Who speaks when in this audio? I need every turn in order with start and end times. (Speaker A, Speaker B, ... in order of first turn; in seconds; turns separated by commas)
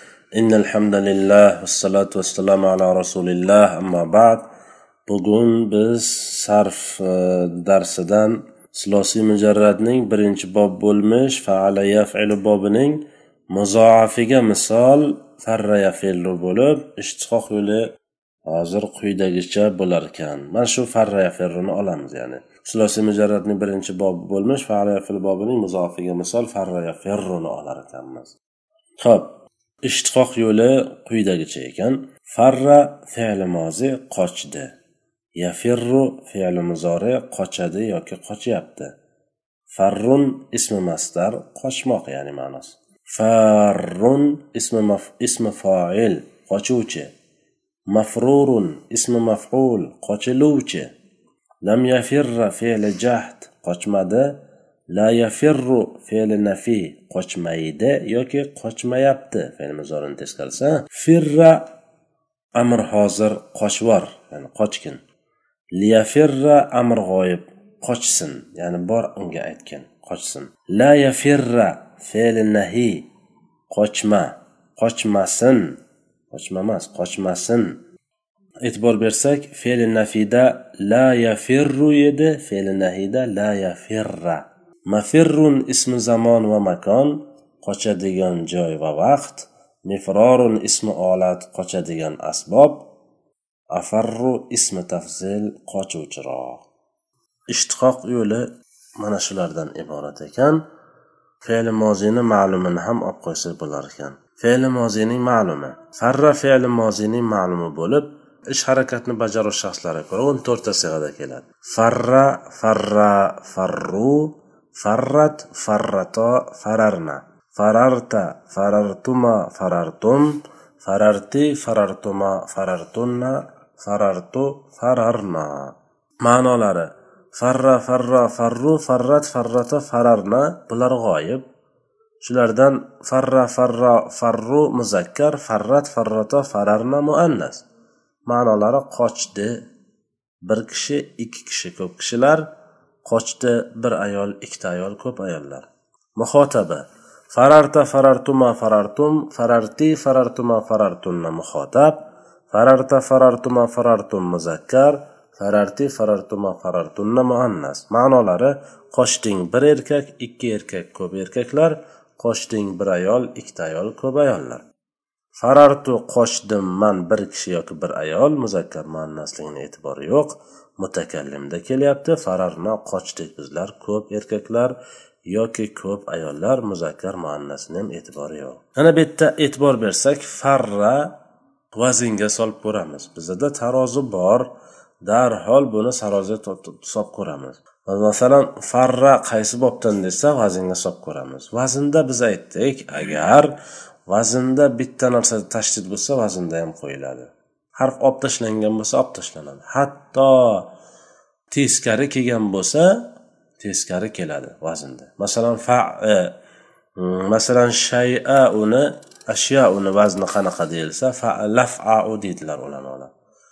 Speaker A: 0.4-4.5, Speaker A: 5.1-17.8, Speaker A: 18.4-28.3, Speaker A: 29.0-29.3, Speaker A: 29.8-34.7, Speaker A: 35.4-38.9, Speaker A: 39.7-47.1, Speaker A: 47.9-50.9, Speaker A: 51.6-54.4, Speaker A: 54.9-61.6, Speaker A: 62.6-65.0, Speaker A: 65.7-73.1, Speaker A: 73.7-75.8, Speaker A: 76.3-77.7, Speaker A: 78.6-92.8, Speaker A: 93.7-96.6, Speaker A: 97.5-98.4, Speaker A: 99.0-100.6, Speaker A: 101.4-131.4, Speaker A: 132.2-137.6, Speaker A: 138.3-139.6, Speaker A: 140.4-142.5, Speaker A: 143.0-145.7, Speaker A: 146.2-152.0, Speaker A: 152.5-164.6, Speaker A: 165.4-174.7, Speaker A: 175.3-181.1, Speaker A: 181.7-184.5, Speaker A: 185.0-193.5, Speaker A: 194.1-200.7, Speaker A: 201.5-203.0, Speaker A: 203.6-206.3, Speaker A: 207.0-213.1